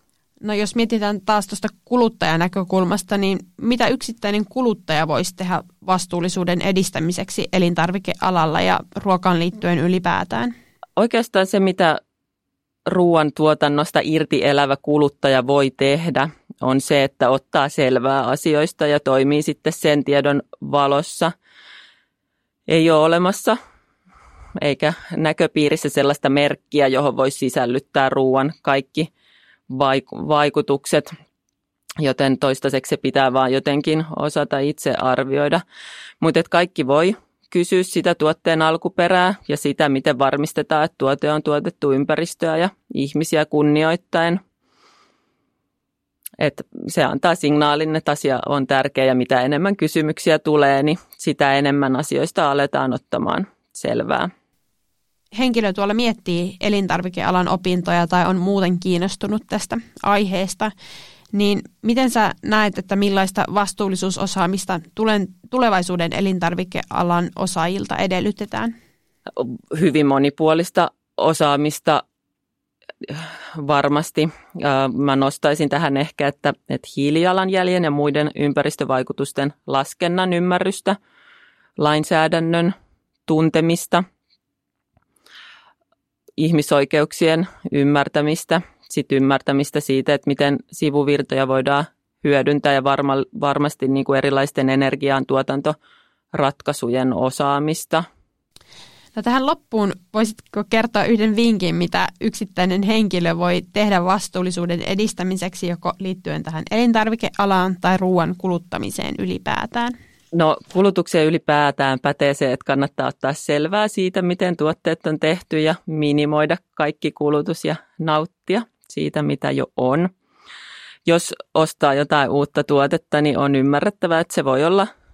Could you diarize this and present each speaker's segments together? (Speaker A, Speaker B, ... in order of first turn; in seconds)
Speaker A: 0.4-10.5, 55.3-60.7, 61.3-68.7, 99.1-109.9
Speaker B: 11.0-12.0, 12.8-21.3, 22.7-23.6, 24.6-29.1, 29.7-31.1, 32.0-35.6, 36.2-44.4, 46.4-54.3, 69.3-72.0, 73.0-81.0, 81.8-82.7, 83.3-84.0, 86.4-95.8, 96.3-98.0, 110.3-120.1, 121.0-124.9